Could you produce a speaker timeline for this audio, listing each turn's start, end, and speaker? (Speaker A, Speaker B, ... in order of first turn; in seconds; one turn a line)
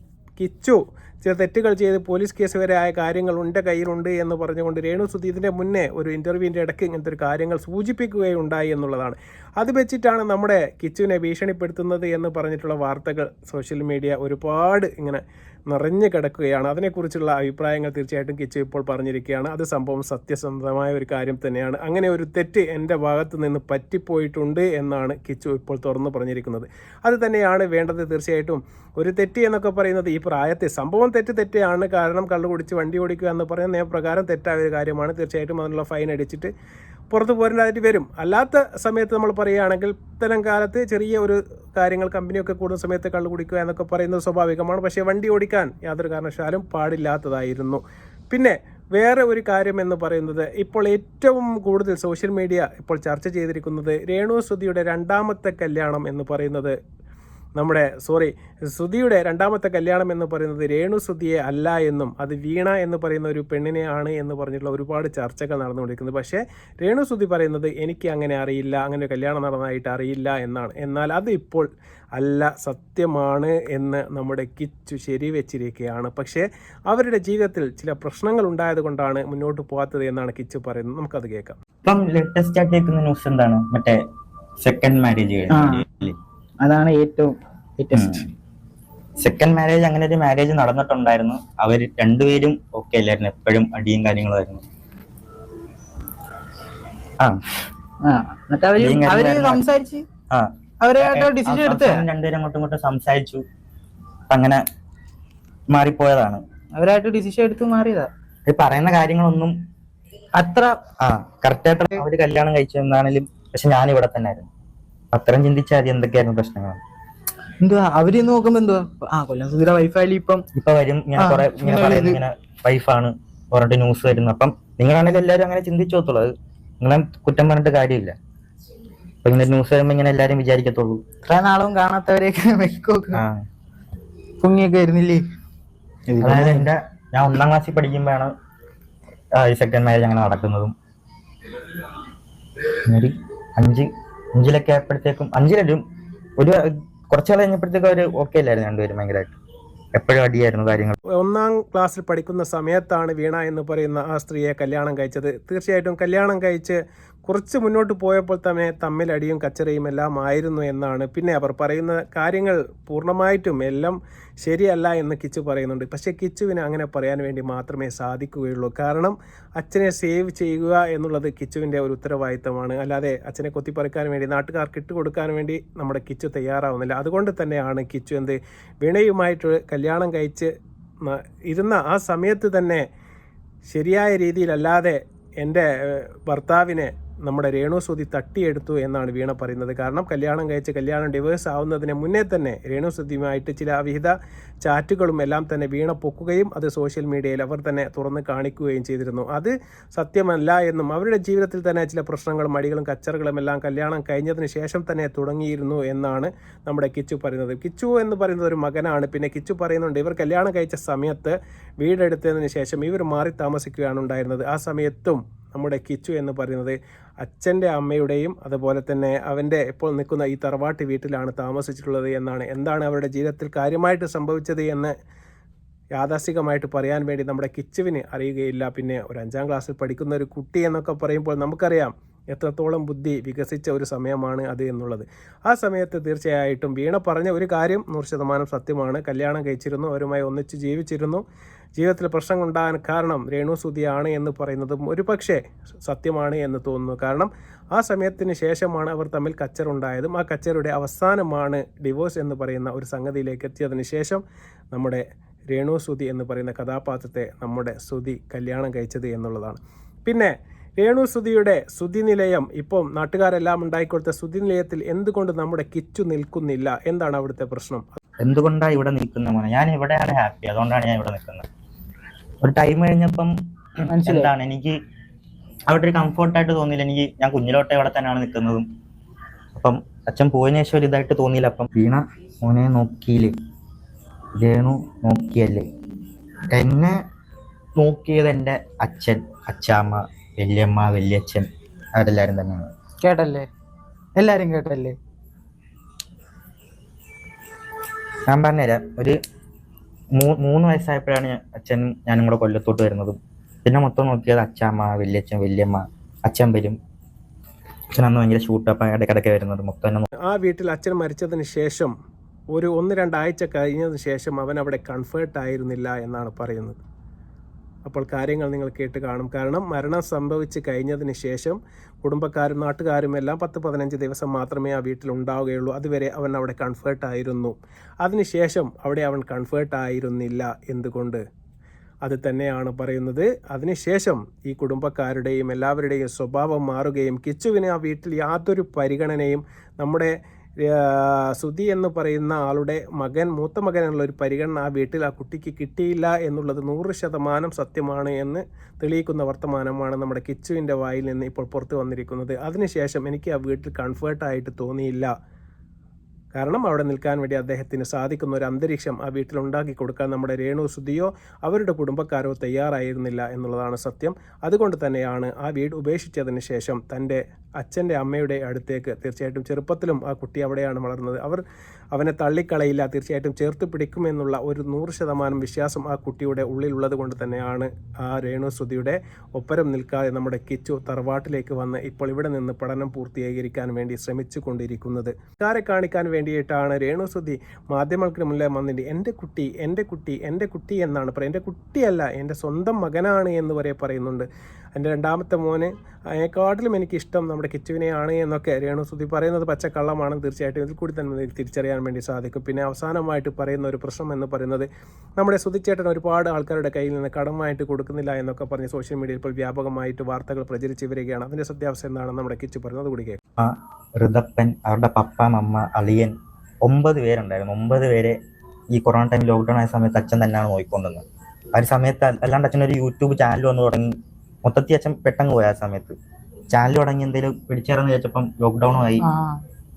Speaker A: 0.4-36.5
Speaker A: 37.1-56.7
Speaker A: 57.6-81.6
Speaker B: 81.8-84.0
Speaker B: 84.6-86.2
Speaker C: 85.5-85.8
Speaker C: 86.6-88.2
Speaker B: 87.9-88.3
Speaker B: 89.2-94.6
Speaker C: 98.0-100.0
Speaker B: 98.8-99.6
Speaker B: 100.3-103.4
Speaker C: 100.8-102.0
Speaker B: 104.3-104.6
Speaker B: 105.7-106.4
Speaker C: 106.8-108.1
Speaker B: 108.5-109.5
Speaker C: 110.3-110.7
Speaker B: 111.0-114.5
Speaker B: 115.1-116.8
Speaker C: 117.6-120.4
Speaker B: 120.5-128.1
Speaker C: 121.2-122.2
Speaker B: 129.2-131.0
Speaker C: 131.2-133.2
Speaker B: 133.1-133.4
Speaker C: 134.4-135.2
Speaker C: 136.1-136.7
Speaker B: 136.2-138.3
Speaker B: 139.4-140.7
Speaker B: 142.8-145.8
Speaker B: 146.4-149.4
Speaker B: 149.9-150.9
Speaker A: 151.2-180.5
Speaker A: 181.0-182.8
Speaker A: 183.7-224.9
Speaker A: 226.0-241.2
Speaker A: 241.8-254.2
Speaker A: 254.7-268.0
Speaker B: 268.2-271.4
Speaker B: 272.4-273.3
Speaker C: 273.9-274.3
Speaker B: 274.0-274.8
Speaker B: 275.7-278.6
Speaker B: 279.5-283.3
Speaker B: 284.4-285.6
Speaker B: 286.5-287.0
Speaker B: 287.8-292.7
Speaker C: 293.0-293.5
Speaker C: 294.2-294.9
Speaker B: 298.3-299.2
Speaker B: 300.2-306.8
Speaker B: 307.9-310.1
Speaker A: 310.2-311.9
Speaker A: 312.5-316.8
Speaker A: 317.8-331.2
Speaker A: 332.0-355.1
Speaker A: 356.3-371.4
Speaker A: 371.9-413.2
Speaker B: 413.4-418.2
Speaker B: 418.7-421.0
Speaker B: 421.5-425.9
Speaker B: 426.5-429.1
Speaker C: 429.0-429.4